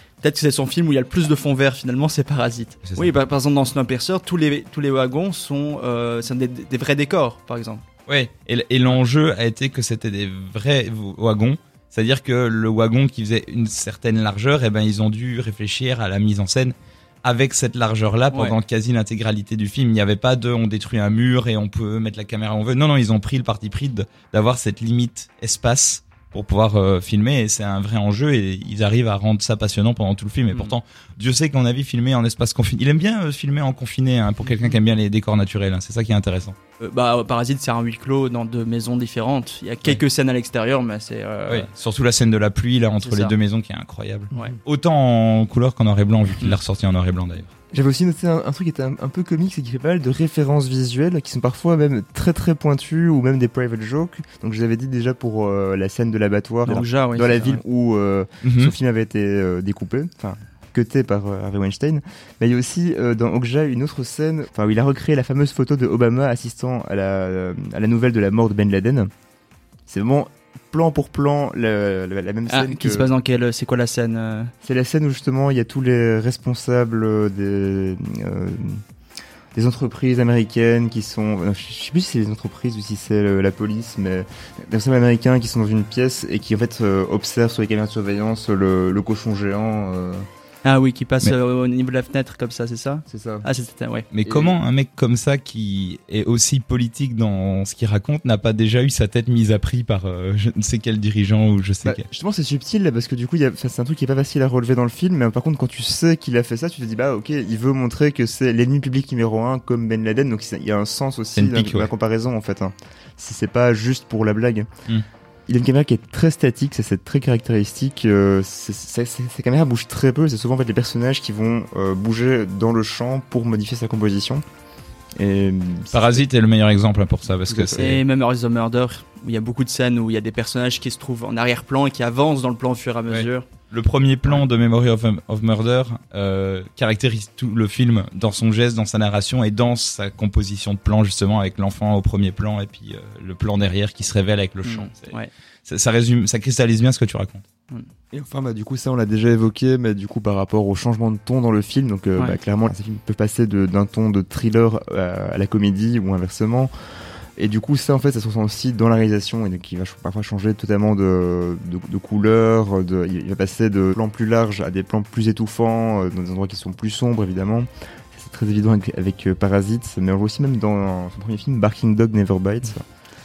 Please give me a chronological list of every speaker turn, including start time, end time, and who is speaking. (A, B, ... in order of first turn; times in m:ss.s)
0:00.2-0:07.8 A
0:02.8-0:03.1 B
0:08.1-0:36.6 B
0:18.3-0:18.6 A
0:36.8-0:41.7 A
0:41.5-0:47.5 B
0:43.0-0:43.4 A
0:44.3-0:44.6 A
0:47.7-1:09.1 C
0:56.6-0:57.6 A
0:58.4-0:58.7 B
1:09.9-1:13.1 C
1:12.5-1:14.5 A
1:14.6-1:18.8 C
1:19.5-1:30.2 C
1:30.6-1:34.0 A
1:33.1-1:33.5 C
1:34.1-1:42.0 B
1:34.2-1:34.5 C
1:41.8-1:54.7 C
1:51.4-1:51.9 B
1:55.5-2:04.4 C
2:05.2-2:06.2 C
2:05.9-2:08.0 B
2:07.4-2:07.9 C
2:07.8-2:13.5 A
2:13.1-2:25.1 B
2:24.6-2:25.3 A
2:25.6-2:27.4 B
2:28.1-2:36.7 C
2:37.4-2:52.8 C